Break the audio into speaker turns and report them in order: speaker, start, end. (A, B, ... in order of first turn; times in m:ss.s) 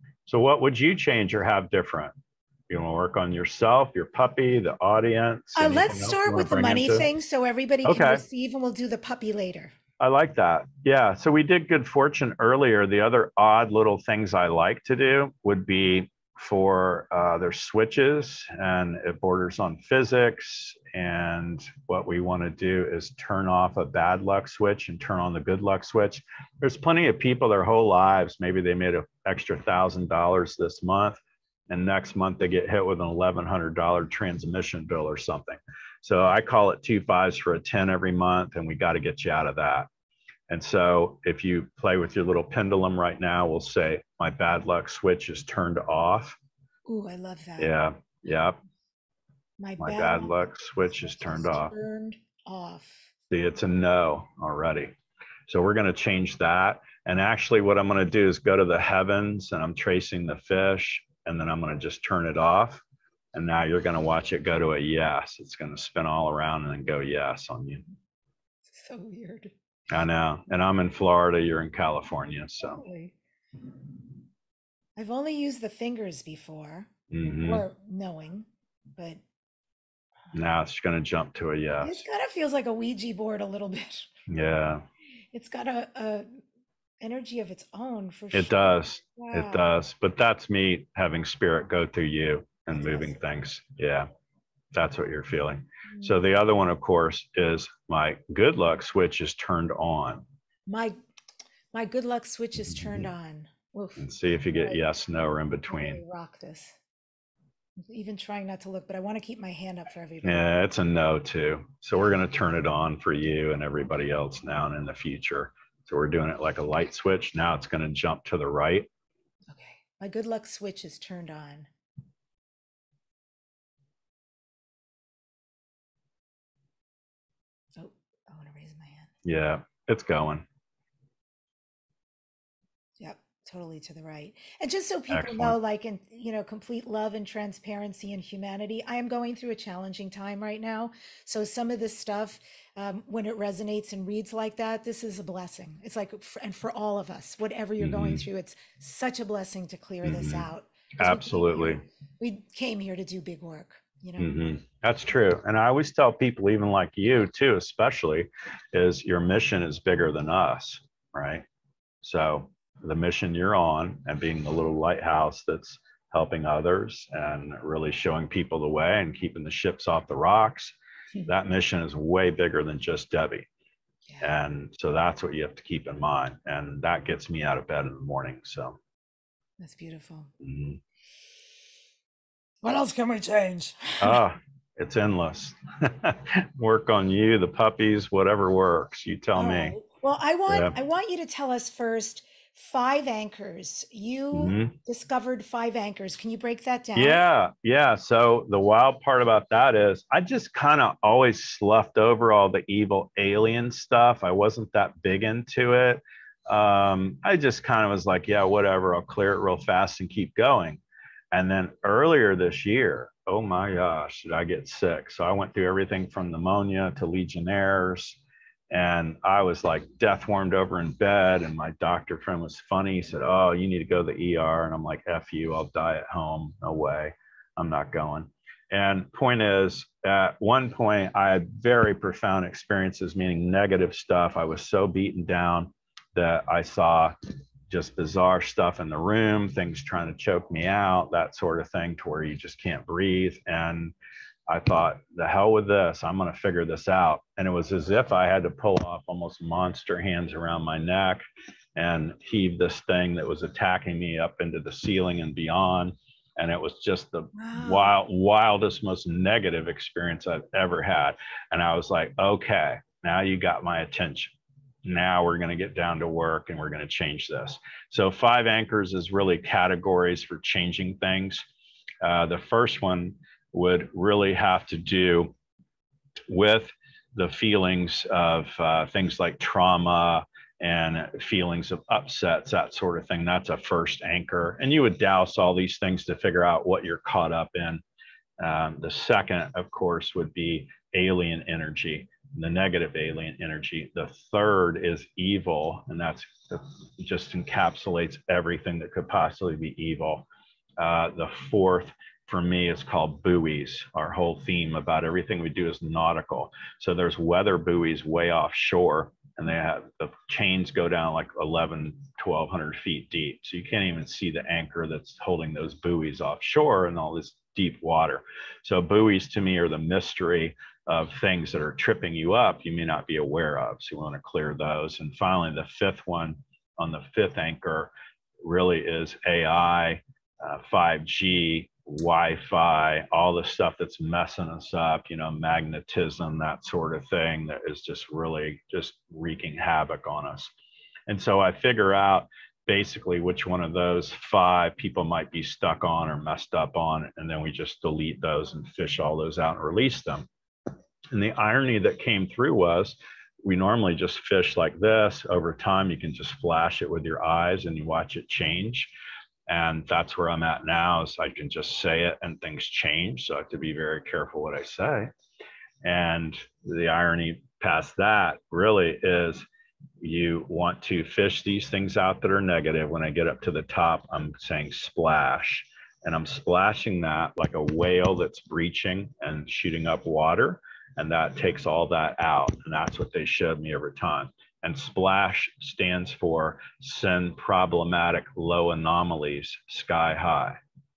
0:00.2-0:02.1 A
0:02.7-0:07.1 A
0:05.5-0:09.7 B
0:07.8-0:08.2 A
0:10.0-0:39.9 A
0:40.5-0:46.4 A
0:46.8-0:47.7 B
0:47.6-0:48.6 A
0:49.6-0:50.4 B
0:49.8-0:51.7 A
0:50.9-0:53.1 B
0:53.3-0:54.9 A
0:55.5-1:02.8 A
1:03.3-1:07.8 A
1:08.6-1:09.5 B
1:09.9-1:12.8 A
1:12.6-1:13.2 B
1:15.0-1:16.9 B
1:17.1-1:17.6 A
1:17.4-1:19.2 B
1:20.3-1:22.0 A
1:21.8-1:24.1 B
1:24.3-1:24.8 A
1:25.3-1:26.4 B
1:27.0-1:29.6 B
1:28.3-1:34.1 A
1:32.7-1:33.2 B
1:34.7-1:40.2 A
1:40.7-1:40.9 B
1:41.7-1:44.8 B
1:42.7-1:43.0 A
1:44.0-1:46.0 A
1:45.7-1:46.8 B
1:47.9-1:50.5 B
1:50.2-1:58.9 A
1:59.5-2:01.7 B
2:07.8-2:09.1 B
2:09.2-2:10.4 A
2:13.0-2:34.3 B
2:15.1-2:15.6 A
2:27.8-2:28.2 A
2:30.0-2:30.5 A
2:31.0-2:31.8 A
2:34.2-2:41.4 A
2:42.0-2:50.7 A
2:51.2-2:53.5 A
2:54.1-2:54.4 B
2:54.2-2:58.8 A
2:59.6-3:00.3 B
3:00.4-3:00.8 A
3:02.6-3:04.2 B
3:04.0-3:09.7 A
3:09.3-3:17.2 B
3:10.5-3:10.7 A
3:14.3-3:14.7 A
3:17.0-3:57.1 A
3:57.7-4:03.9 A
4:04.5-4:11.2 A
4:11.8-4:31.4 A
4:17.3-4:18.0 B
4:32.0-4:35.3 A
4:36.3-4:47.8 A
4:48.4-5:00.2 A
5:00.8-5:40.5 A
5:41.1-5:50.3 A
5:51.1-5:58.9 A
5:59.5-6:05.1 A
6:05.8-6:09.4 A
6:10.0-6:30.6 A